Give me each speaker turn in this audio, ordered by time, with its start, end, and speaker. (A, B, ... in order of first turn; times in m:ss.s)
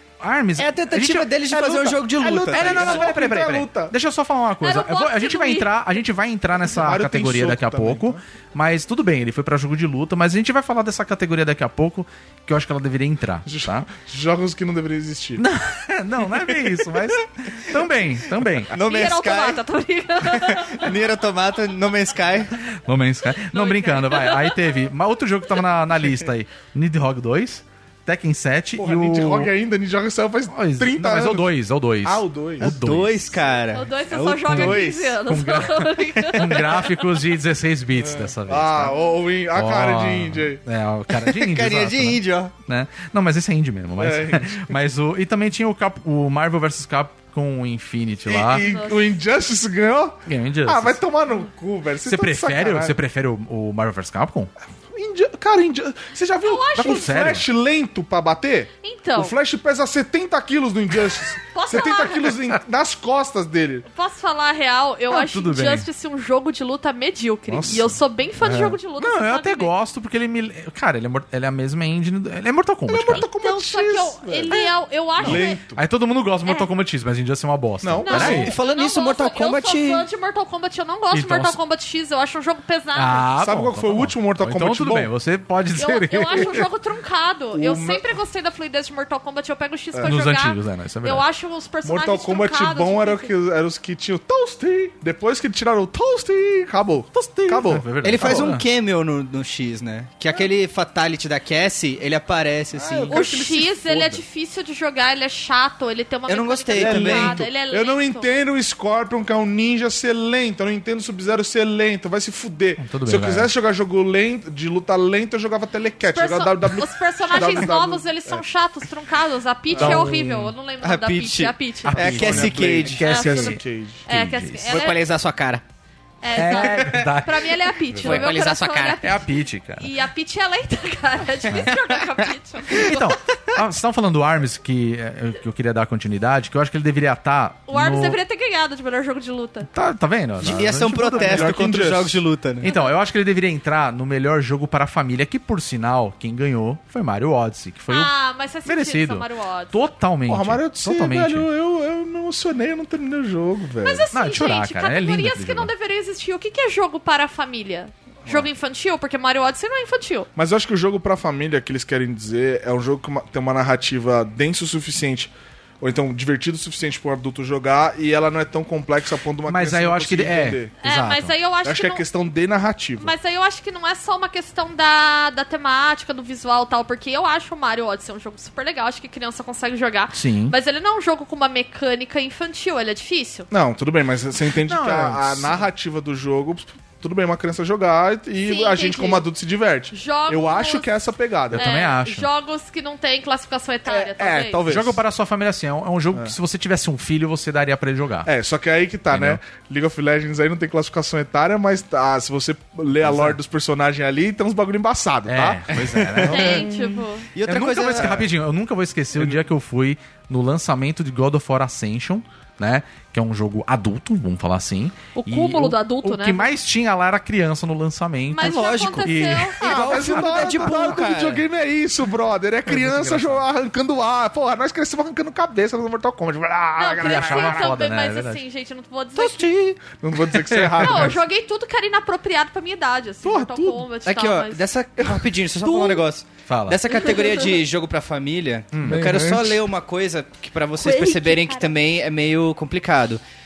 0:00.2-0:01.3 A
0:00.6-0:03.1 B
0:01.5-0:03.9 C
0:02.5-0:13.9 A
0:04.6-0:05.7 D
0:06.8-0:08.2 C
0:13.4-0:15.4 C
0:15.4-0:18.7 A
0:18.7-0:19.6 B
0:18.7-0:20.9 D
0:20.2-0:22.5 B
0:22.6-0:29.5 A
0:23.4-0:24.8 D
0:28.8-0:32.7 C
0:30.5-0:33.4 A
0:32.6-0:35.2 B
0:33.7-0:36.9 D
0:34.5-0:39.0 A
0:36.3-0:36.8 B
0:38.0-0:40.6 C
0:39.5-0:48.6 A
0:41.1-0:42.5 B
0:44.0-0:44.8 C
0:48.2-0:53.0 C
0:48.6-0:49.1 D
0:50.2-0:51.0 A
0:52.0-0:54.5 A
0:54.9-1:03.8 C
0:56.4-0:57.3 D
0:56.8-0:57.4 A
0:58.8-0:59.4 D
1:01.5-1:02.4 D
1:03.9-1:09.7 D
1:05.1-1:05.9 A
1:07.5-1:08.8 C
1:09.0-1:13.3 A
1:12.9-1:15.8 C
1:13.1-1:15.6 D
1:14.5-1:18.5 A
1:17.8-1:18.5 C
1:18.0-1:23.2 D
1:18.1-1:20.0 B
1:21.1-1:21.6 A
1:22.9-1:26.7 A
1:23.4-1:25.1 C
1:25.8-1:33.3 D
1:27.5-1:28.1 C
1:29.9-1:30.2 C
1:30.0-1:31.2 A
1:31.8-1:38.5 C
1:37.1-1:38.6 A
1:38.0-1:43.2 B
1:42.7-1:44.2 C
1:43.1-1:48.3 D
1:46.3-1:47.4 B
1:46.7-1:58.4 C
1:47.0-1:47.4 A
1:52.8-1:53.5 A
1:56.0-2:02.2 D
1:57.3-1:57.7 B
1:59.7-2:00.2 C
1:59.8-2:00.5 A
2:00.8-2:03.0 B
2:01.8-2:04.9 A
2:01.9-2:04.0 C
2:03.0-2:05.0 D
2:04.7-2:05.6 B
2:06.2-2:13.1 D
2:06.3-2:08.3 A
2:06.5-2:07.1 B
2:08.0-2:09.0 B
2:09.0-2:09.9 A
2:11.6-2:12.0 B
2:12.7-2:18.2 A
2:17.7-2:19.7 D
2:19.6-2:21.6 A
2:20.4-2:22.7 B
2:21.1-2:22.2 C
2:22.6-2:28.1 A
2:22.6-2:22.9 D
2:27.9-2:29.8 D
2:28.6-2:31.5 A
2:30.3-2:34.1 C
2:33.8-2:40.3 D
2:34.1-2:35.7 A
2:40.4-2:50.7 C
2:49.5-2:51.3 A
2:50.8-2:52.0 D
2:51.6-2:53.1 C
2:53.0-3:03.5 D
3:00.1-3:00.6 A
3:03.5-3:11.7 C
3:04.7-3:05.6 A
3:08.4-3:09.2 D
3:09.9-3:10.9 D
3:11.5-3:12.3 A
3:11.5-3:14.6 D
3:13.8-3:15.0 C
3:14.7-3:18.3 A
3:18.2-3:26.8 C
3:19.1-3:19.4 A
3:23.0-3:23.4 A
3:25.2-3:26.6 A
3:26.3-3:26.7 B
3:26.3-3:27.3 D
3:27.3-3:28.2 B
3:27.4-3:41.0 A
3:27.9-3:28.3 C
3:29.1-3:29.5 C
3:35.2-3:36.5 D
3:38.3-3:39.6 D
3:38.4-3:41.4 B
3:39.6-3:47.8 C
3:42.7-3:43.4 A
3:46.8-3:49.5 D
3:47.0-3:48.4 A
3:49.2-3:49.8 A
3:49.9-3:51.2 C
3:50.3-3:51.2 A
3:50.8-3:54.7 D
3:53.2-3:53.7 A
3:53.3-3:53.8 C
3:54.0-4:03.2 B
3:55.6-3:56.0 D
3:56.4-3:56.8 A
3:56.9-3:57.6 D
3:58.7-3:59.1 A
3:58.8-3:59.6 C
4:00.8-4:01.7 D